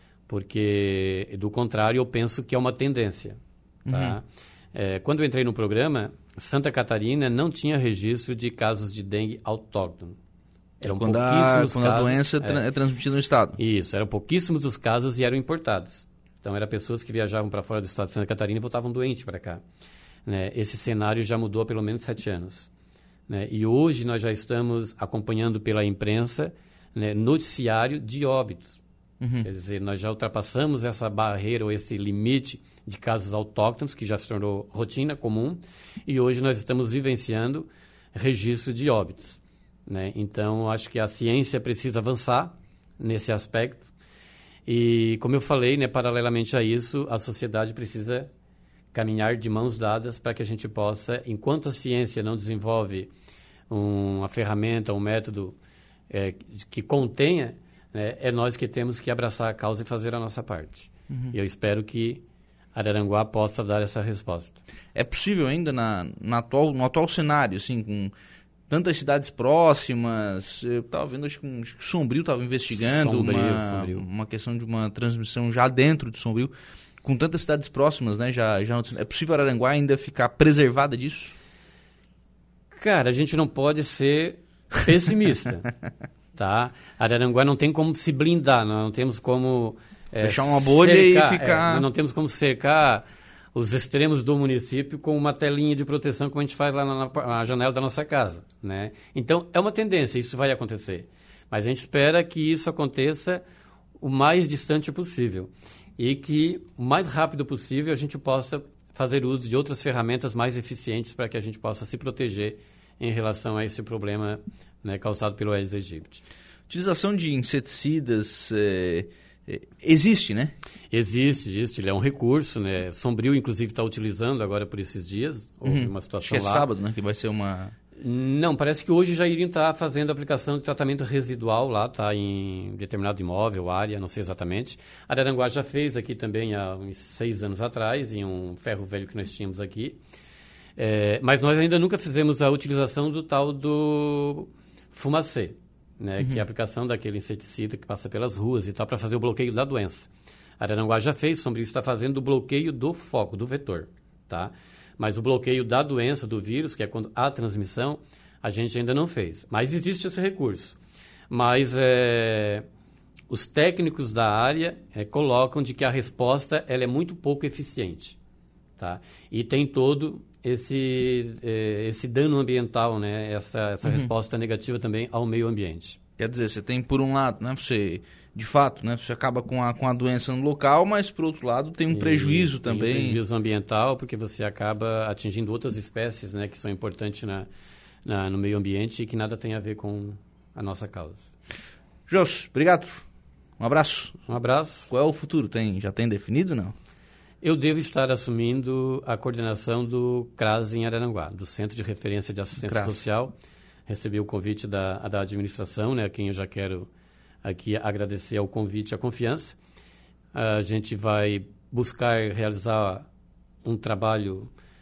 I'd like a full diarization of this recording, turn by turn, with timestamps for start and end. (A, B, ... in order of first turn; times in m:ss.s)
0:00.3-0:10.2 A
0:03.9-0:04.2 B
0:10.8-0:12.6 A
0:10.8-0:13.6 B
0:13.6-0:19.6 A
0:20.2-0:22.7 A
0:23.3-0:28.8 A
0:29.2-0:29.5 B
0:29.4-0:43.8 A
0:44.6-0:48.3 A
0:48.9-0:53.1 A
0:53.7-0:55.6 A
0:56.1-1:02.2 A
1:02.7-1:04.6 A
1:04.9-1:08.1 B
1:08.7-1:16.5 B
1:12.8-1:14.0 A
1:17.0-1:21.4 B
1:22.8-1:25.7 A
1:26.4-1:43.4 A
1:30.2-1:31.9 B
1:44.0-1:56.2 A
1:56.7-2:00.5 B
2:00.9-2:06.7 A
2:05.6-2:07.7 B
2:08.0-2:20.0 A
2:20.8-2:40.8 A
2:41.3-2:42.6 A
2:43.3-2:48.2 A
2:48.8-2:56.0 A
2:53.8-2:54.1 B
2:56.2-3:03.2 B
3:01.9-3:07.5 A
3:08.0-3:11.3 A
3:12.1-3:13.0 B
3:13.6-3:14.2 B
3:14.3-3:14.9 A
3:14.9-3:16.7 B
3:17.4-3:23.3 A
3:22.6-3:23.0 B
3:23.9-3:26.9 A
3:27.4-3:29.6 A
3:30.3-3:33.0 A
3:33.6-3:34.5 A